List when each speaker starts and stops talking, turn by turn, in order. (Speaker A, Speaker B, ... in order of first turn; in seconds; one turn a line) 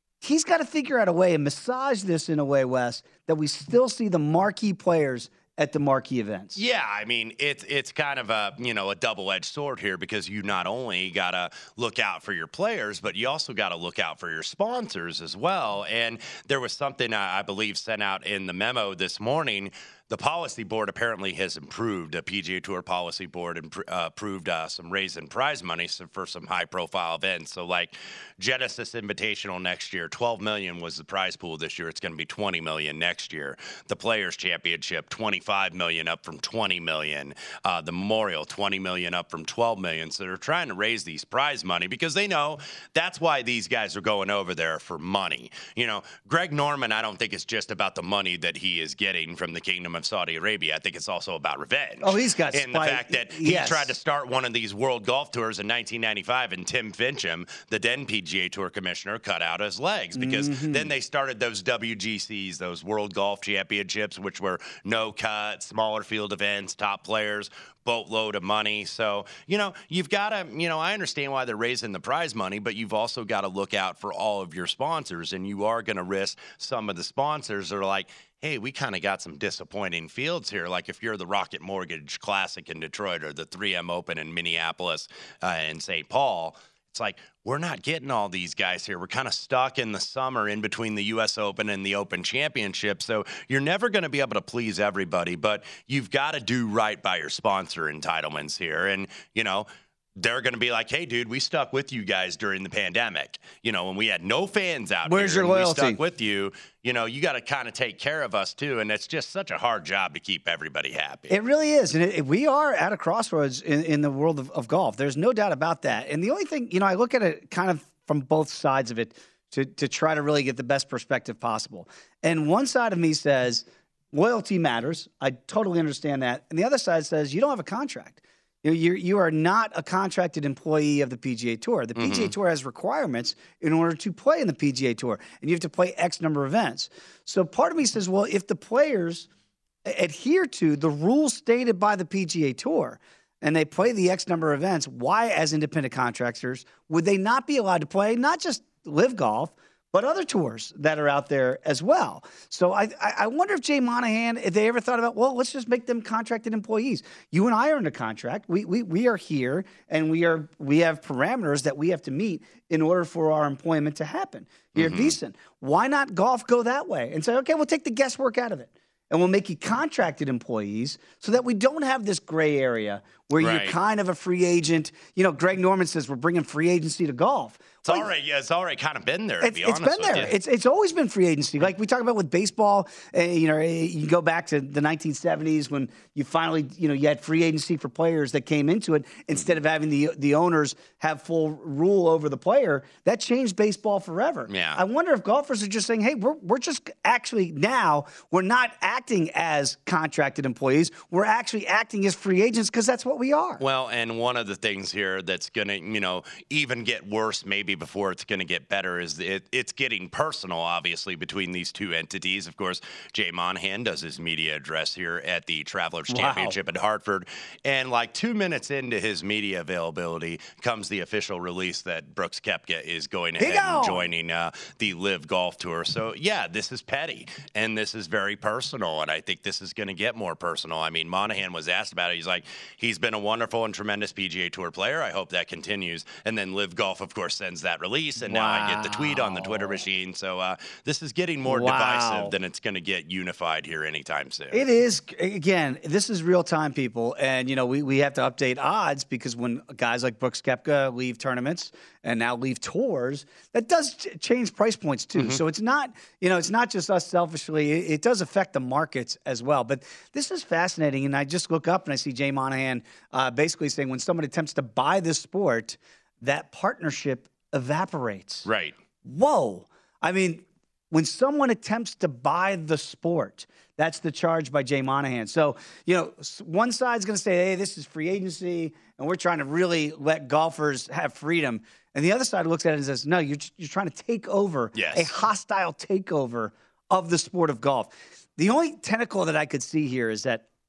Speaker A: 0.2-6.6
Speaker B: 6.5-111.4
Speaker A: 52.0-53.9
Speaker A: 60.1-60.9
Speaker A: 105.0-106.0
Speaker A: 111.3-139.3
Speaker B: 132.0-132.3
Speaker A: 139.9-178.1
Speaker B: 164.8-165.2
Speaker B: 173.4-173.8
Speaker B: 177.8-180.3
Speaker A: 179.4-203.6
Speaker B: 194.5-194.8
Speaker B: 203.6-244.7
Speaker A: 216.1-216.6
Speaker A: 223.4-224.1
Speaker A: 238.2-239.8
Speaker A: 241.4-242.3
Speaker A: 244.5-268.5
Speaker B: 268.4-268.8
Speaker A: 269.0-290.4
Speaker B: 284.7-285.1